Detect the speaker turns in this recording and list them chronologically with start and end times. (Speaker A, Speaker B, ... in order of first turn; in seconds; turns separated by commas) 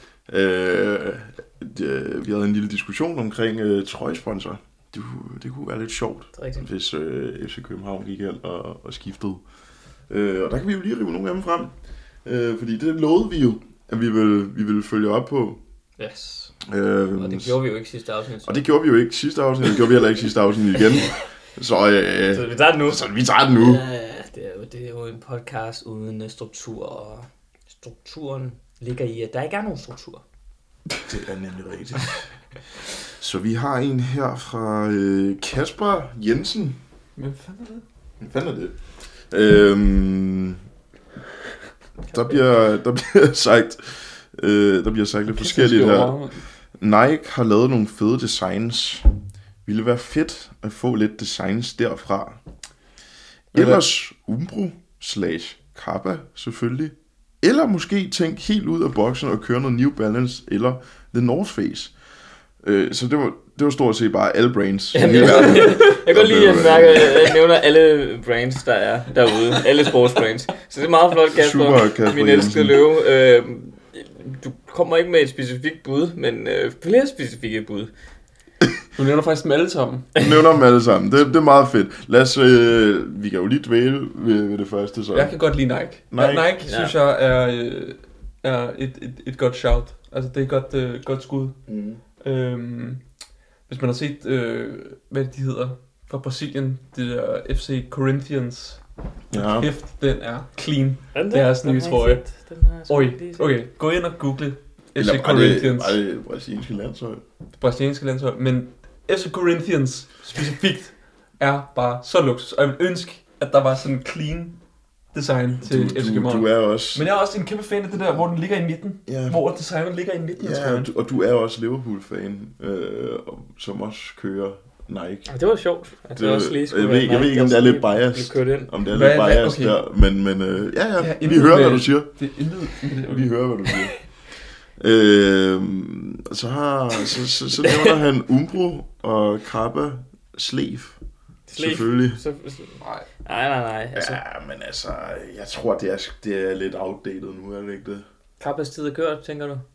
Speaker A: 0.3-9.4, Speaker B: 6.3-6.6, Speaker A: 10.1-11.7, Speaker A: 12.2-15.6, Speaker B: 16.0-16.5, Speaker A: 16.6-17.6, Speaker B: 17.1-18.6, Speaker A: 18.4-23.8, Speaker B: 22.3-30.2, Speaker A: 31.0-36.8, Speaker C: 37.1-37.8, Speaker A: 38.2-38.8, Speaker A: 39.3-40.6, Speaker A: 42.1-46.2, Speaker C: 45.3-46.4, Speaker A: 46.8-49.1, Speaker A: 49.6-52.4, Speaker C: 53.5-53.8, Speaker A: 53.5-61.9, Speaker A: 62.6-67.4, Speaker B: 64.9-77.9, Speaker A: 71.3-72.8, Speaker C: 78.9-80.1, Speaker A: 80.1-85.3, Speaker C: 85.1-91.6, Speaker A: 86.1-86.5, Speaker B: 86.6-86.9, Speaker A: 91.7-92.0, Speaker C: 92.2-93.0, Speaker C: 93.7-98.8, Speaker A: 99.3-99.7, Speaker C: 99.3-102.3, Speaker B: 101.1-103.5, Speaker C: 102.9-106.0, Speaker A: 105.0-107.2, Speaker C: 107.6-114.5, Speaker C: 115.1-120.9, Speaker A: 115.6-117.0, Speaker A: 119.0-119.4, Speaker A: 120.4-125.3, Speaker B: 125.3-128.7, Speaker A: 126.1-132.1, Speaker C: 128.9-129.8, Speaker C: 131.0-133.3, Speaker A: 133.1-133.9, Speaker A: 134.8-141.0, Speaker B: 137.6-137.9, Speaker B: 141.5-144.2, Speaker A: 141.6-142.2, Speaker C: 142.8-143.1, Speaker A: 143.9-148.0, Speaker B: 148.4-149.6